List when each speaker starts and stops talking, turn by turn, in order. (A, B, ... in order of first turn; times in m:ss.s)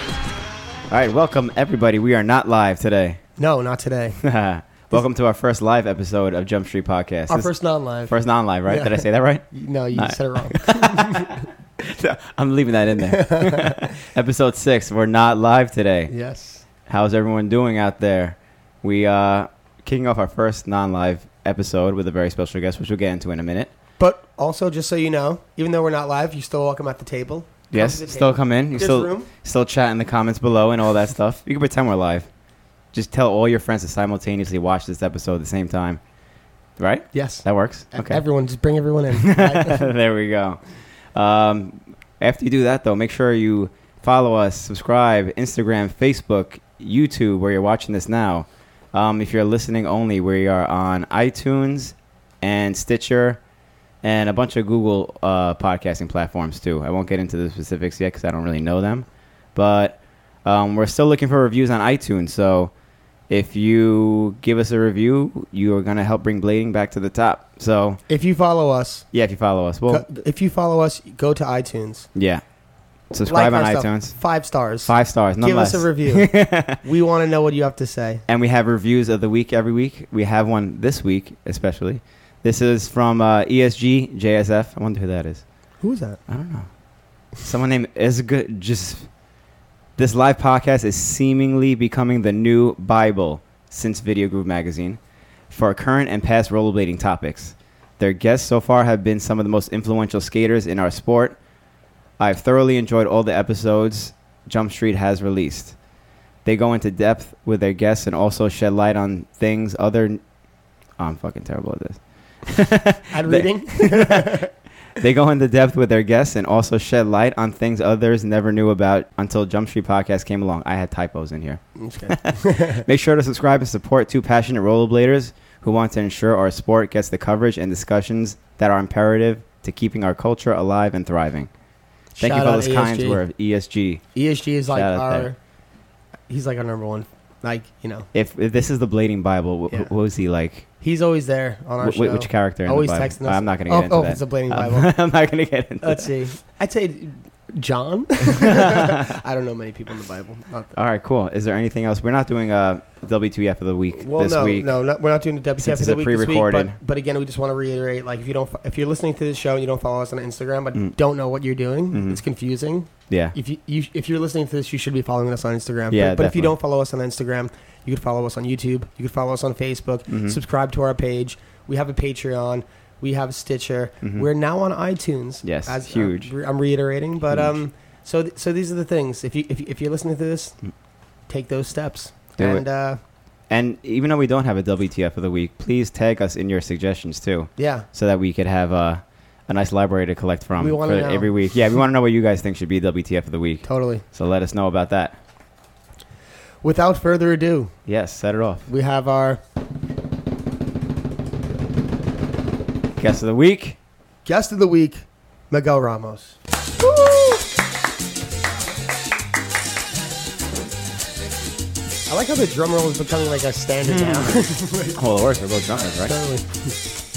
0:00.9-0:03.2 A
0:03.4-0:04.2 B
0:04.2-0:07.5 A
0:07.3-0:11.3 B
0:08.1-0:16.1 A
0:13.1-0:13.9 B
0:16.1-0:16.6 B
0:16.8-0:23.7 A
0:24.0-0:29.3 B
0:27.7-0:32.3 A
0:32.9-0:36.0 A
0:36.8-0:38.2 A
0:37.1-0:39.9 B
0:39.2-0:40.6 A
0:41.1-0:53.4 A
0:54.0-1:02.7 A
1:03.3-1:08.0 A
1:08.1-1:09.0 B
1:09.1-1:10.0 A
1:09.9-1:12.1 B
1:12.1-1:12.4 A
1:13.1-1:16.8 A
1:13.2-1:18.2 B
1:18.3-1:25.4 A
1:25.8-1:26.2 B
1:26.3-1:26.7 A
1:27.4-1:29.1 A
1:30.0-1:35.0 A
1:35.5-1:41.4 A
1:42.2-1:45.8 A
1:46.4-1:50.2 A
1:51.0-1:54.4 A
1:53.1-1:54.5 B
1:55.0-2:11.5 A
2:01.8-2:02.8 B
2:12.2-2:13.2 B
2:12.2-2:14.0 A
2:14.1-2:15.4 B
2:14.7-2:15.3 A
2:16.3-2:18.1 B
2:18.1-2:20.6 A
2:20.8-2:24.9 B
2:21.8-2:26.1 A
2:25.8-2:30.7 B
2:28.7-2:28.9 A
2:30.7-2:34.7 A
2:34.0-3:00.6 B
2:35.6-2:36.7 A
2:41.9-2:42.2 A
2:43.1-2:43.3 A
2:45.9-2:46.5 A
2:50.1-2:50.4 A
2:54.0-2:54.3 A
2:55.4-2:56.3 A
2:57.3-2:57.6 A
3:01.3-3:03.0 B
3:02.4-3:02.6 A
3:03.5-3:15.2 A
3:07.6-3:07.8 B
3:10.6-3:11.3 B
3:13.6-3:14.0 B
3:16.6-3:17.7 B
3:17.9-3:18.6 A
3:18.7-3:19.4 B
3:23.0-3:23.8 A
3:24.2-3:27.4 B
3:32.1-3:35.0 B
3:33.8-3:34.4 A
3:35.0-3:36.1 A
3:36.0-3:36.7 B